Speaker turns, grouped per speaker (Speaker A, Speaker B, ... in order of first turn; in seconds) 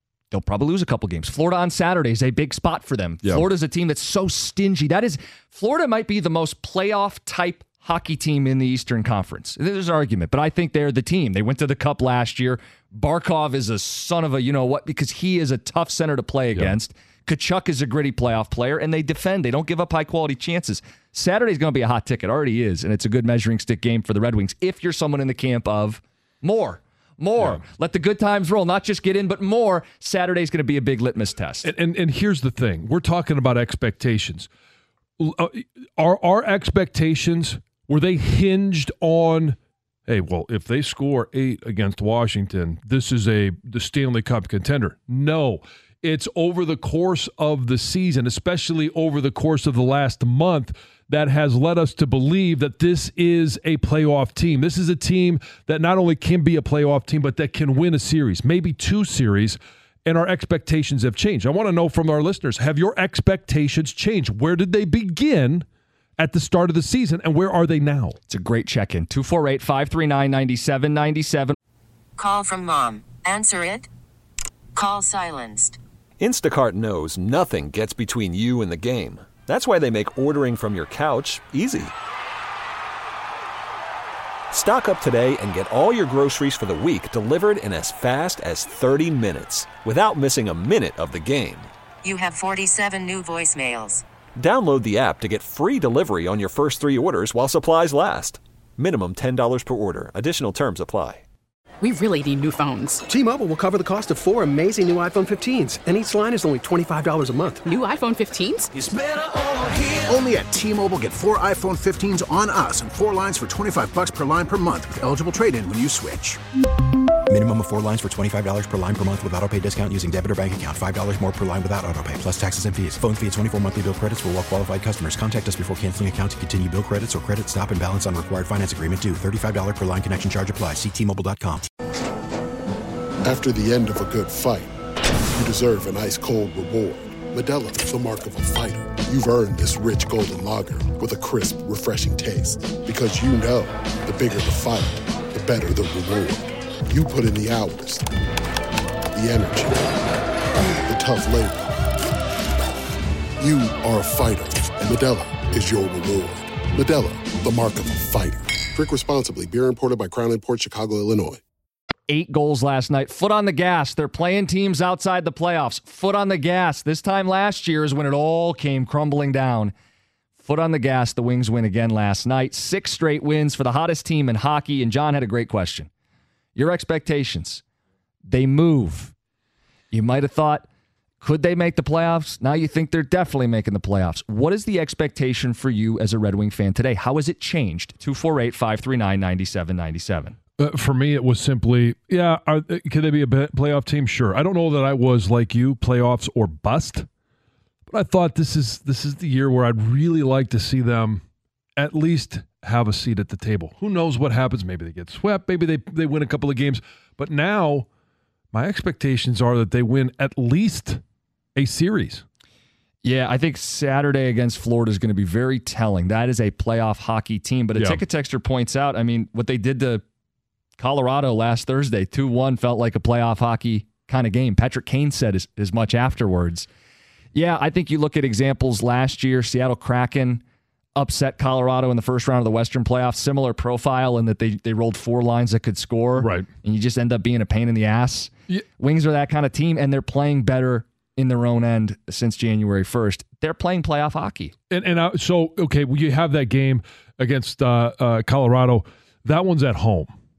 Speaker A: 0.3-31.7, 68.3-71.5, 162.1-169.7, 170.4-175.9, 176.5-177.6, 178.3-179.1, 179.9-180.7, 181.2-190.4, 213.0-220.0, 220.8-226.7, 227.3-230.4, 231.0-244.5
Speaker B: 31.6-34.5, 35.2-65.7, 66.2-68.2, 190.6-197.1, 197.9-201.2, 201.8-207.9, 208.5-211.0, 211.6-212.2, 217.8-218.0, 236.2-236.5, 244.7-250.1
Speaker C: 72.2-73.9, 74.8-75.8, 92.0-94.0
Speaker D: 76.2-81.9, 84.5-91.7, 94.4-101.2
Speaker E: 101.8-103.0, 107.7-108.7
Speaker F: 103.1-107.6
Speaker G: 108.7-116.4
Speaker H: 117.3-131.7
Speaker I: 133.2-134.7, 135.3-148.1, 149.1-149.9, 150.8-151.7, 153.4-161.4